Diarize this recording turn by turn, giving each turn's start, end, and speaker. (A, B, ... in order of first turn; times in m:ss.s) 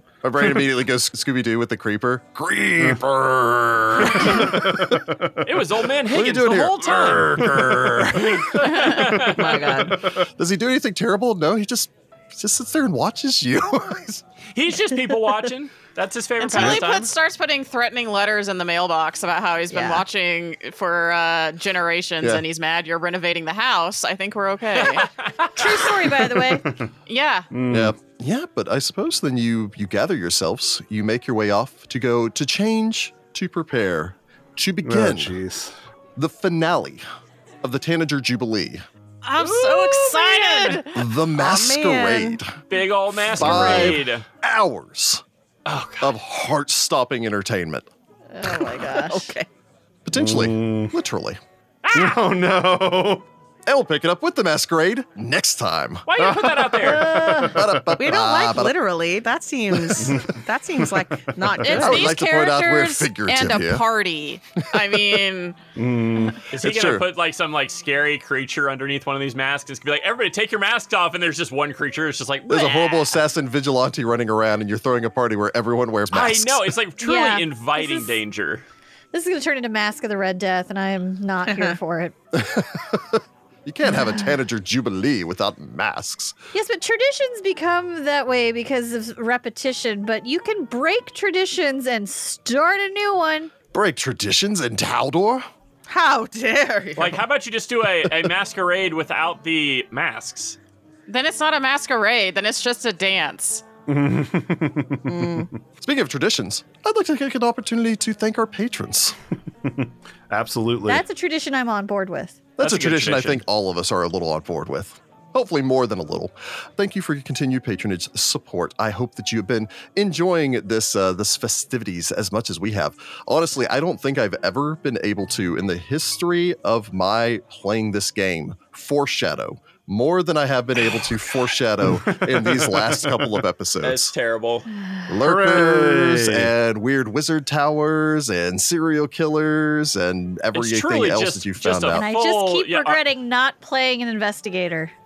0:00.2-0:05.0 A
0:02.8-0:03.0 B
0:04.2-0:05.6 B
0:05.4-0:09.8 C
0:06.0-0:08.7 A
0:07.3-0:07.6 B
0:09.3-0:10.0 D
0:09.6-0:14.2 A
0:09.9-0:10.2 B
0:14.5-0:17.1 C
0:16.4-0:25.1 E
0:19.7-0:20.0 F
0:24.7-0:26.1 C
0:25.6-0:26.6 F
0:26.3-0:26.9 B
0:27.0-0:27.5 E
0:27.5-0:28.0 B
0:27.7-0:35.4 A
0:34.8-0:35.7 B
0:36.2-0:37.0 A
0:37.6-0:38.8 A
0:39.2-0:41.0 E
0:39.4-0:40.9 C
0:40.9-0:42.6 A
0:41.4-0:42.4 D
0:42.7-0:44.2 C
0:43.2-0:45.2 A
0:43.4-0:44.0 B
0:45.6-0:46.1 C
0:46.0-0:47.9 A
0:48.3-0:49.3 F
0:48.4-0:49.4 D
0:50.0-0:51.4 A
0:50.1-0:51.0 B
0:51.8-0:52.2 C
0:51.9-0:53.2 B
0:53.6-0:56.1 A
0:56.0-0:57.3 C
0:56.2-0:57.9 B
0:56.8-0:57.6 F
0:57.4-0:58.8 A
0:58.0-1:02.1 D
0:59.8-1:01.8 B
1:01.6-1:05.6 E
1:01.8-1:03.8 A
1:05.8-1:06.4 B
1:06.5-1:13.1 C
1:06.5-1:07.0 A
1:12.5-1:16.7 A
1:16.1-1:18.6 C
1:17.0-1:18.2 F
1:19.1-1:22.1 F
1:21.5-1:21.8 D
1:22.3-1:26.4 A
1:23.9-1:24.2 F
1:26.5-1:33.5 F
1:33.7-1:35.5 A
1:35.9-1:37.2 D
1:37.0-1:40.6 C
1:41.1-1:43.6 E
1:43.9-1:45.5 B
1:45.1-1:45.5 D
1:45.8-1:49.2 A
1:49.6-1:51.0 B
1:50.9-1:52.4 F
1:52.6-2:14.1 A
1:52.6-1:53.4 C
2:11.9-2:13.4 B
2:13.8-2:14.7 C
2:15.1-2:22.0 A
2:15.2-2:16.5 B
2:20.5-2:23.0 C
2:21.9-2:24.9 F